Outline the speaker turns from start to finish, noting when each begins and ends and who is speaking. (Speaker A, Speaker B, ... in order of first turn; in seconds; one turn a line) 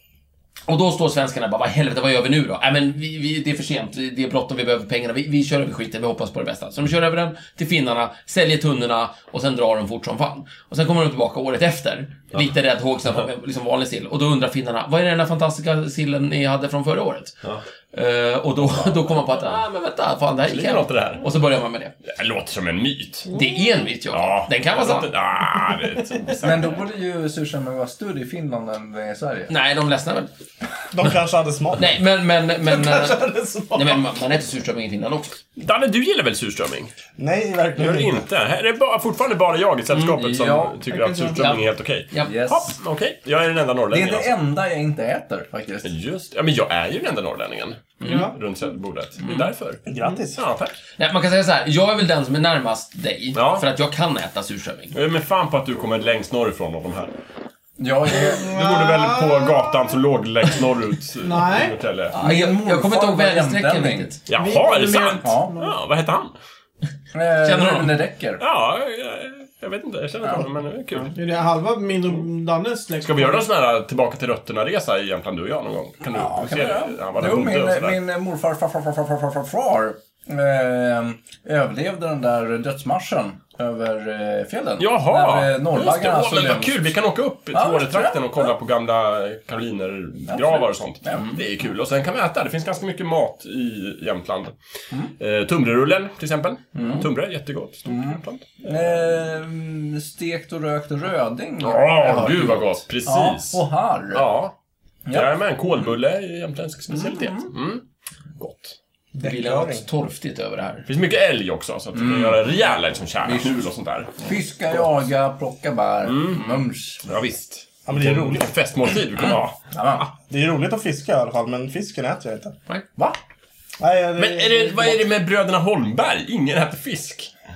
Speaker A: 0.7-17.4
Speaker A: 17.9-21.9
Speaker B: 18.6-19.6
Speaker B: 20.4-21.2
Speaker B: 22.0-23.3
Speaker A: 23.3-25.1
Speaker C: 23.3-23.6
Speaker B: 24.1-26.7
Speaker D: 26.4-29.5
Speaker A: 29.5-30.3
Speaker E: 30.9-31.9
Speaker A: 31.8-33.2
Speaker C: 32.6-34.0
Speaker A: 33.7-35.4
Speaker B: 35.6-36.9
Speaker E: 37.2-38.2
Speaker B: 37.8-44.3
Speaker D: 40.1-40.8
Speaker C: 40.8-41.4
Speaker A: 41.3-42.3
Speaker D: 42.2-42.8
Speaker D: 43.9-45.9
Speaker B: 45.8-50.8
Speaker A: 48.0-48.3
Speaker C: 48.0-48.3
Speaker E: 49.9-50.4
Speaker A: 51.0-54.9
Speaker B: 53.3-53.6
Speaker B: 54.9-57.1
Speaker D: 57.8-58.5
Speaker B: 58.2-62.1
Speaker C: 58.4-59.7
Speaker C: 61.2-61.8
Speaker D: 62.1-64.1
Speaker A: 62.1-64.2
Speaker B: 64.3-66.3
Speaker C: 64.3-65.7
Speaker D: 65.2-65.5
Speaker D: 67.1-68.4
Speaker A: 67.4-68.0
Speaker B: 68.4-71.1
Speaker C: 71.1-73.4
Speaker B: 73.0-78.0
Speaker D: 76.1-86.9
Speaker B: 84.8-94.5
Speaker D: 87.5-88.5
Speaker D: 90.3-91.4
Speaker B: 95.2-98.6
Speaker D: 96.8-97.1
Speaker D: 97.9-104.3
Speaker B: 101.6-104.5
Speaker D: 105.1-105.4
Speaker B: 105.1-107.8
Speaker D: 106.9-107.5
Speaker B: 108.4-108.7
Speaker E: 109.1-109.8
Speaker A: 109.2-110.9
Speaker B: 110.8-114.1
Speaker D: 111.9-112.5
Speaker D: 113.2-113.6
Speaker D: 114.2-117.0
Speaker B: 116.0-119.6
Speaker E: 117.9-118.5
Speaker D: 119.7-120.1
Speaker E: 120.3-122.5
Speaker E: 123.8-125.1
Speaker B: 124.2-127.3